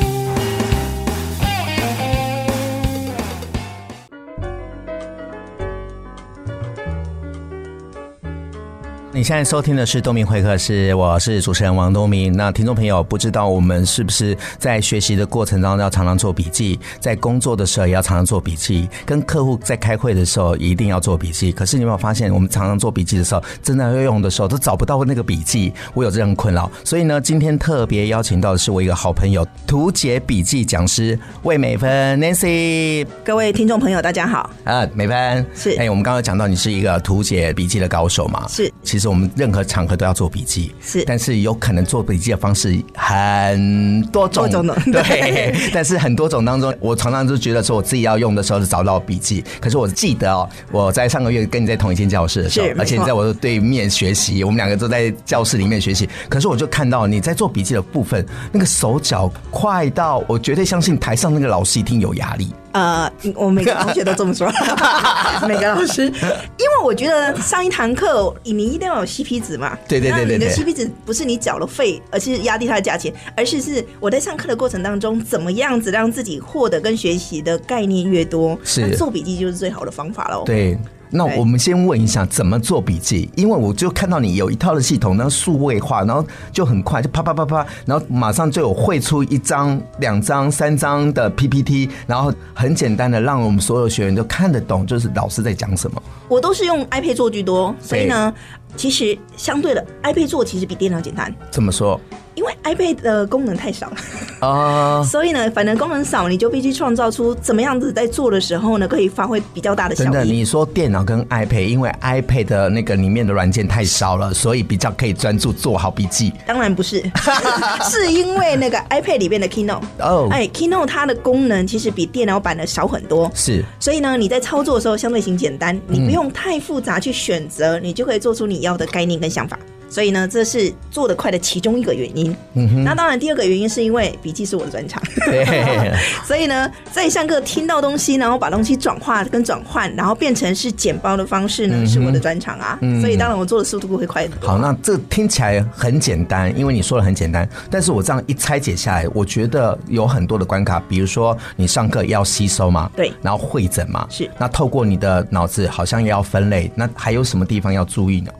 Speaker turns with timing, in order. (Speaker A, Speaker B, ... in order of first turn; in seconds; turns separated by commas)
Speaker A: 9.1-33.1, Speaker B: 33.2-34.5, Speaker A: 34.6-62.5, Speaker B: 35.5-35.8, Speaker B: 38.5-38.7, Speaker B: 44.3-45.7, Speaker B: 52.5-53.1, Speaker B: 62.7-80.5, Speaker A: 64.8-65.5, Speaker A: 69.9-70.7, Speaker A: 78.7-79.0, Speaker A: 80.5-96.0, Speaker B: 96.3-101.4, Speaker A: 97.9-98.2, Speaker A: 101.5-102.0, Speaker B: 102.3-110.4, Speaker A: 104.4-105.1, Speaker A: 110.0-116.4, Speaker B: 116.5-144.7, Speaker A: 117.2-117.9, Speaker A: 120.0-120.4, Speaker A: 123.3-123.7, Speaker A: 125.9-126.2, Speaker A: 132.5-133.0, Speaker A: 135.2-136.2, Speaker A: 141.7-142.2, Speaker A: 142.8-143.3, Speaker A: 144.4-158.3